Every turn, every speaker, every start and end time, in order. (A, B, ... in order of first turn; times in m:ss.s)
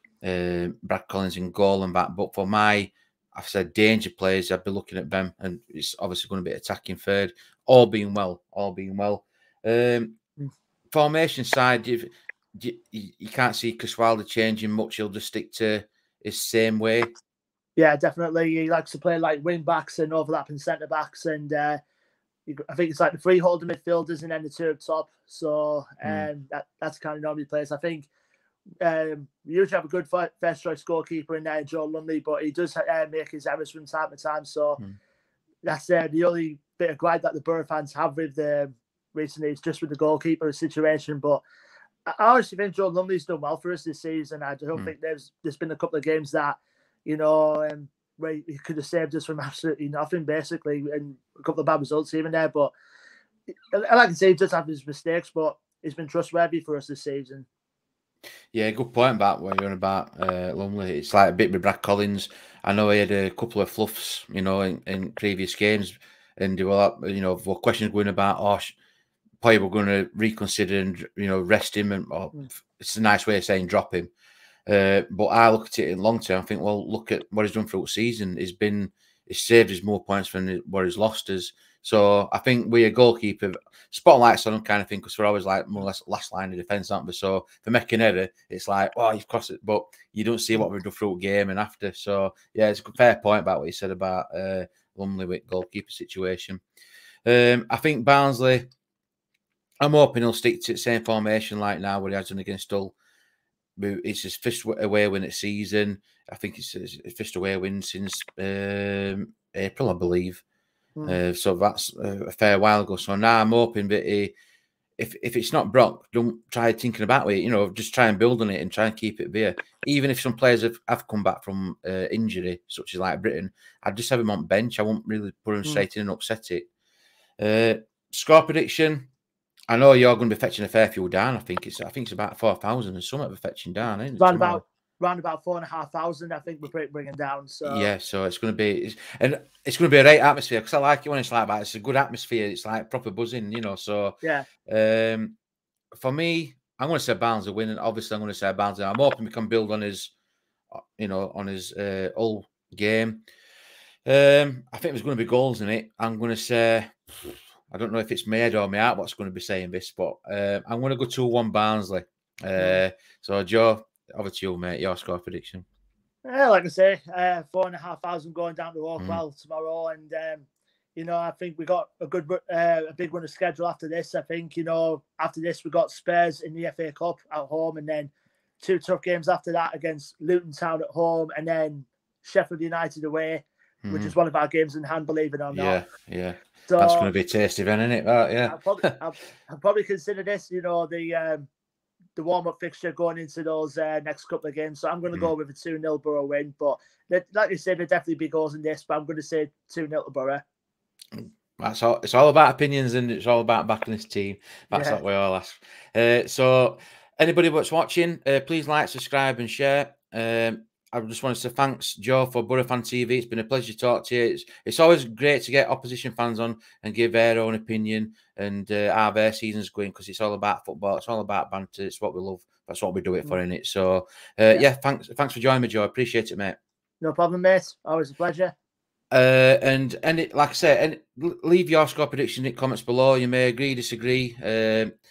0:00.2-0:10.2 A
0:10.9-0:17.1 A
0:17.8-0:21.8 B
0:22.5-0:28.1 B
0:26.0-0:26.3 A
0:28.8-0:34.8 B
0:35.6-0:41.4 B
0:42.0-0:52.7 B
0:53.7-0:57.4 B
0:58.5-1:08.7 A
1:09.4-1:14.1 A
1:14.7-1:36.6 A
1:37.2-1:38.7 A
1:39.8-1:42.9 A
1:43.8-1:50.4 A
1:51.0-1:54.3 A
1:55.0-2:06.7 A
2:07.4-2:09.1 A
2:09.7-2:14.6 A
2:14.2-2:17.9 B
2:17.6-2:24.2 A
2:24.2-2:24.5 B
2:24.7-2:25.3 A
2:25.9-2:30.1 A
2:30.7-2:33.2 A
2:34.0-2:45.6 A
2:46.2-3:05.8 B
3:03.8-3:04.1 A
3:05.5-3:08.9 A
3:06.7-3:07.1 B
3:08.5-3:11.5 B
3:12.2-3:20.4 B
3:21.1-3:46.6 A
3:24.7-3:25.0 B
3:47.0-3:48.5 B
3:49.1-3:54.9 A